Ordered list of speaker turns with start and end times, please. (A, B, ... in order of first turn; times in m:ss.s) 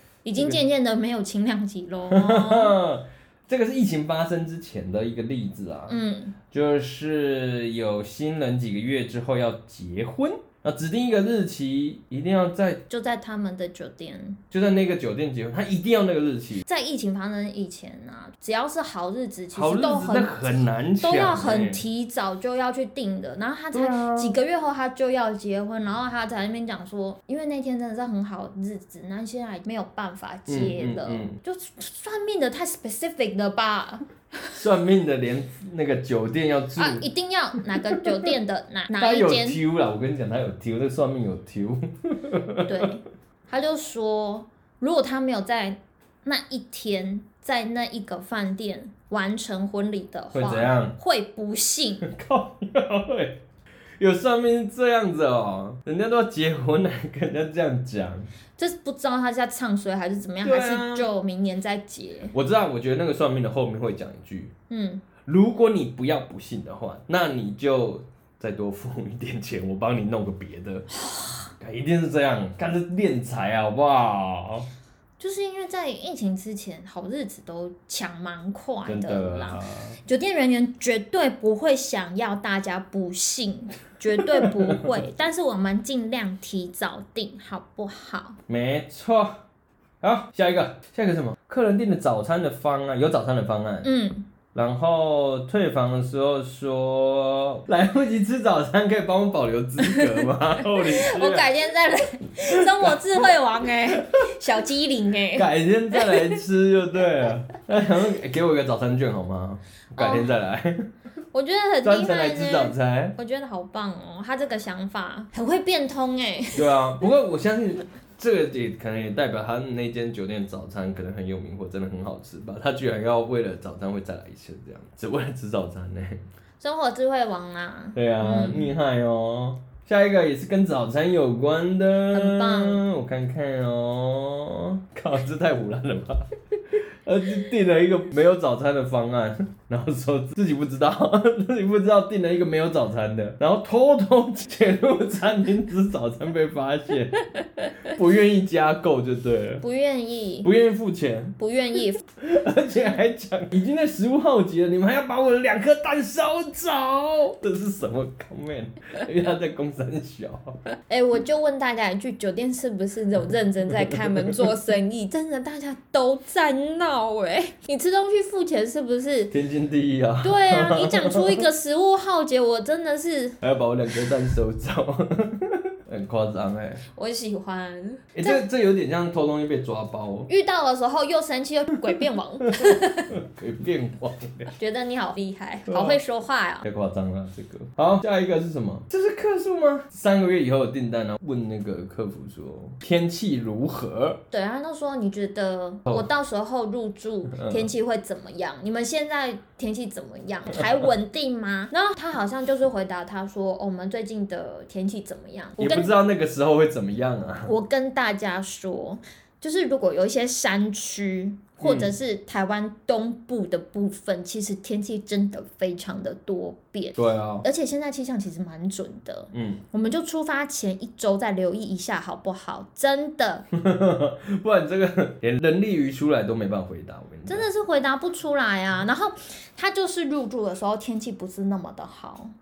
0:00.2-0:02.7 A
0:00.4-0:00.6 B
0:02.1-0:06.0 B
0:05.9-0:06.3 A
0:06.5-0:12.8 B
0:12.9-0:14.4 A
0:14.5-0:16.6 B
0:16.6-0:34.6 A
0:19.5-0:21.8 B
0:23.7-0:24.4 B
0:30.5-0:31.4 B
0:34.5-0:37.0 B
0:36.8-0:39.6 A
0:39.0-0:42.7 B
0:42.6-0:52.0 A
0:50.3-0:50.9 B
0:52.0-0:53.4 B
0:54.0-0:58.3 B
0:58.6-1:02.3 A
1:00.4-1:01.1 B
1:02.3-1:04.5 B
1:04.7-1:05.0 A
1:05.2-1:10.9 B
1:10.9-1:11.5 A
1:11.6-1:14.7 B
1:15.2-1:28.4 A
1:18.8-1:20.0 B
1:28.5-1:29.4 B
1:30.0-1:33.9 B
1:33.8-1:34.2 A
1:34.5-1:41.5 B
1:39.9-1:46.4 A
1:42.5-1:42.9 B
1:45.3-1:50.9 B
1:50.0-1:50.3 A
1:51.3-1:56.7 A
1:51.8-1:53.2 B
1:56.5-2:06.2 B
2:06.6-2:08.7 A
2:07.9-2:27.2 B
2:12.1-2:12.8 A
2:27.4-2:27.7 A
2:27.9-2:29.6 B
2:29.6-2:30.5 A
2:30.4-2:31.4 B
2:31.4-2:32.0 A
2:32.2-2:40.6 B
2:40.9-2:49.3 A
2:49.3-2:51.4 B
2:50.2-2:53.4 A
2:53.4-2:56.8 B
2:56.8-2:58.4 A
2:58.1-3:00.3 B
3:00.3-3:03.1 A
3:03.1-3:04.5 B
3:04.6-3:06.6 A
3:05.7-3:06.0 B
3:06.6-3:14.2 B
3:14.3-3:25.9 A
3:17.3-3:17.7 B
3:25.6-3:27.5 B
3:27.4-3:43.4 A
3:31.6-3:31.9 B
3:37.0-3:37.4 B
3:39.3-3:39.6 B
3:43.6-3:47.4 B
3:47.3-3:52.3 A